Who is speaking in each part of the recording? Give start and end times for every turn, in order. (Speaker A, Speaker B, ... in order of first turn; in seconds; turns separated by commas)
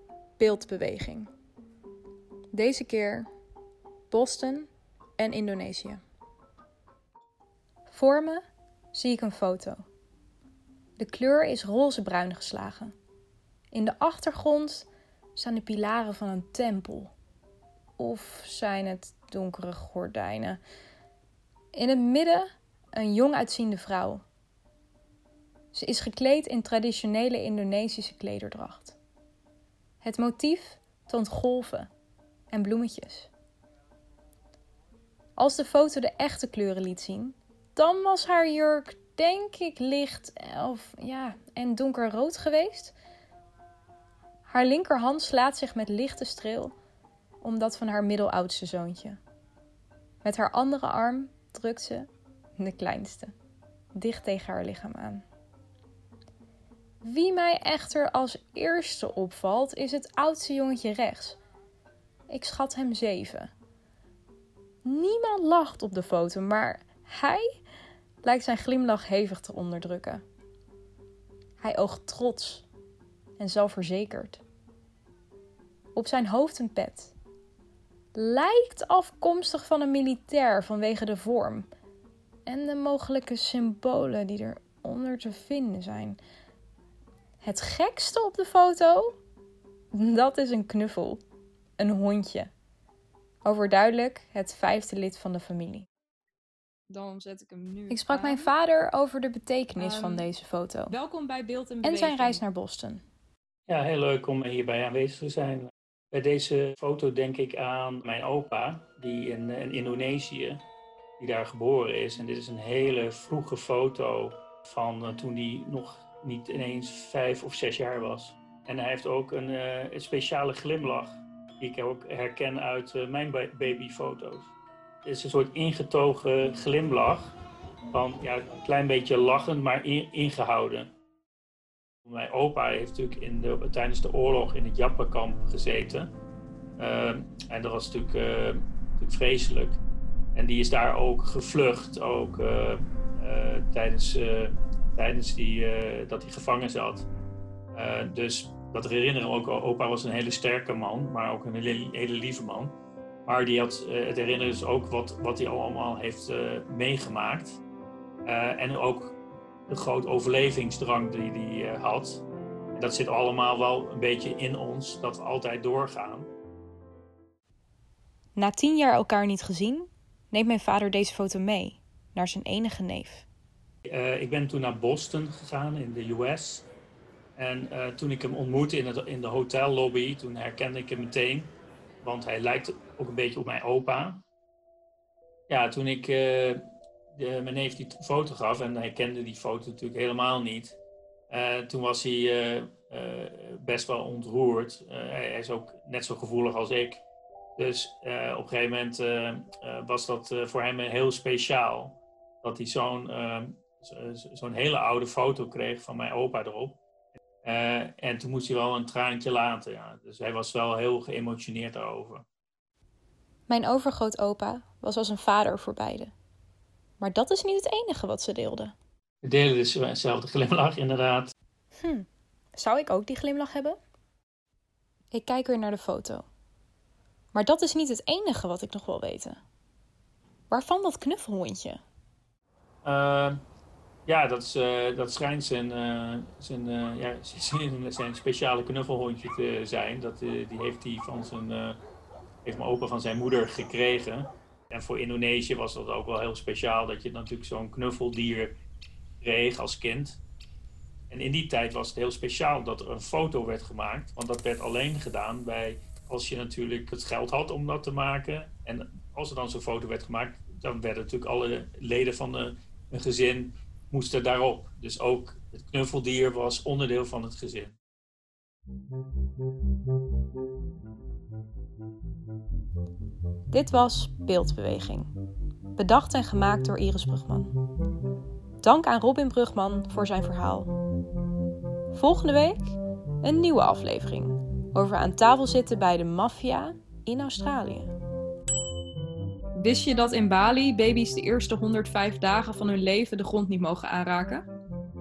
Speaker A: 0.4-1.3, Speaker A: 2.5-3.3, Speaker A: 4.1-6.0, Speaker A: 7.9-8.4, Speaker A: 8.9-9.8, Speaker A: 11.0-12.9, Speaker A: 13.7-17.1, Speaker A: 18.0-20.6, Speaker A: 21.7-24.2, Speaker A: 25.7-29.0, Speaker A: 30.0-31.9, Speaker A: 32.5-33.3, Speaker A: 35.4-42.9, Speaker A: 44.5-46.7, Speaker A: 47.4-49.2, Speaker A: 50.2-53.3, Speaker A: 53.9-55.2, Speaker A: 57.0-61.4, Speaker A: 62.3-63.5, Speaker A: 64.8-67.5, Speaker A: 68.2-70.2, Speaker A: 71.6-72.7, Speaker A: 73.4-74.4, Speaker A: 75.9-77.1, Speaker A: 78.1-81.7, Speaker A: 82.5-86.2, Speaker A: 87.4-89.2, Speaker A: 89.9-91.2, Speaker A: 91.8-92.5, Speaker A: 93.4-95.8, Speaker B: 96.9-98.5, Speaker A: 97.9-101.0, Speaker B: 99.8-100.3, Speaker B: 100.9-102.4, Speaker A: 101.8-103.0, Speaker C: 103.7-110.6, Speaker C: 111.2-127.4, Speaker C: 127.9-130.9, Speaker C: 132.0-136.1, Speaker C: 136.8-139.8, Speaker C: 140.3-147.1, Speaker C: 147.7-152.7, Speaker C: 153.2-157.6, Speaker C: 158.2-166.3, Speaker A: 168.3-173.2, Speaker C: 173.9-176.7, Speaker C: 177.3-184.2, Speaker C: 185.5-186.6, Speaker C: 187.1-190.8, Speaker C: 191.3-197.0, Speaker C: 197.6-206.8, Speaker C: 207.4-212.2, Speaker A: 213.5-216.1, Speaker A: 217.0-218.7, Speaker C: 219.2-221.3, Speaker A: 221.8-223.8, Speaker A: 225.1-226.3, Speaker A: 227.3-229.4, Speaker A: 230.5-231.8, Speaker C: 232.8-233.4, Speaker C: 234.1-241.8, Speaker C: 242.4-248.6, Speaker C: 249.2-250.2, Speaker C: 251.1-267.8, Speaker A: 273.5-275.1, Speaker A: 275.8-277.5, Speaker A: 278.6-280.7, Speaker A: 281.9-287.9, Speaker B: 289.6-294.5